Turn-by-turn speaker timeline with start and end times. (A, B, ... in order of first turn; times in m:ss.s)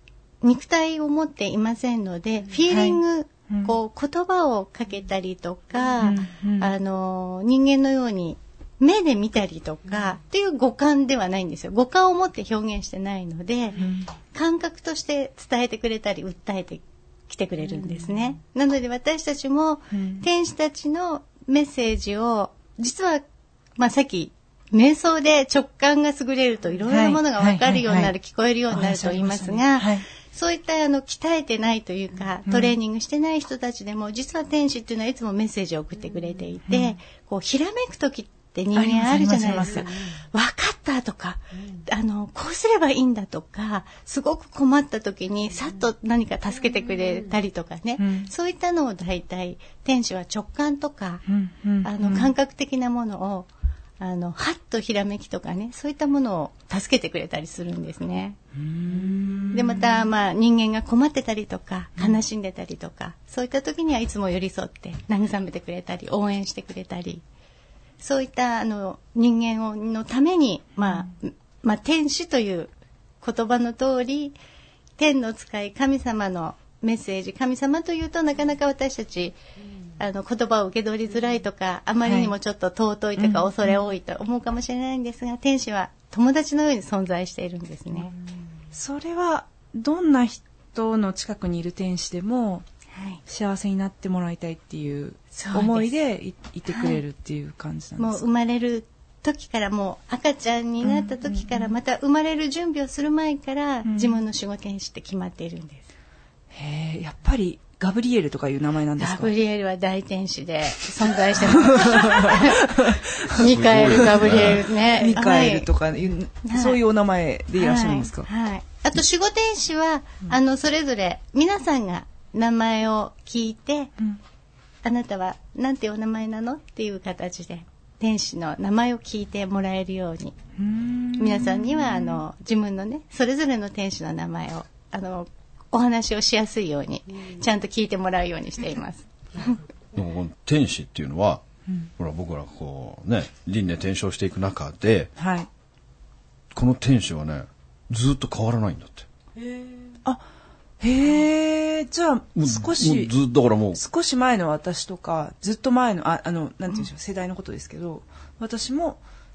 0:00.4-0:23.2 A
0:02.7-0:03.8 B
0:06.0-0:06.7 B
0:13.8-0:14.1 B
0:19.9-0:20.2 B
0:23.8-0:51.2 A
0:26.9-0:28.1 B
0:28.7-0:30.0 B
0:32.5-0:32.8 B
0:36.7-0:36.9 B
0:38.7-0:39.9 B
0:48.0-0:48.3 B
0:51.3-0:52.3 B
0:51.8-0:53.5 A
0:54.0-0:58.4 A
0:58.6-1:00.1 B
0:59.5-1:07.2 A
1:08.0-1:12.7 A
1:13.2-1:14.4 A
1:15.0-1:19.4 A
1:20.0-1:28.2 A
1:22.0-1:22.3 B
1:23.2-1:23.7 B
1:28.7-1:32.7 B
1:33.3-1:38.2 B
1:35.4-1:35.9 A
1:36.7-1:37.0 A
1:38.0-1:45.8 A
1:40.9-1:41.7 B
1:43.8-1:44.2 B
1:46.5-1:49.3 B
1:49.0-1:52.8 A
1:51.3-1:58.3 B
1:53.3-1:55.7 A
1:53.4-1:54.7 C
1:56.5-1:56.8 A
1:57.6-2:04.0 A
2:04.8-2:10.4 A
2:10.6-2:12.2 B
2:11.2-2:19.6 A
2:19.9-2:21.4 C
2:22.0-2:25.1 C
2:25.2-2:25.5 B
2:26.5-2:29.1 C
2:30.8-2:33.1 B
2:32.4-2:33.8 C
2:33.8-2:39.0 B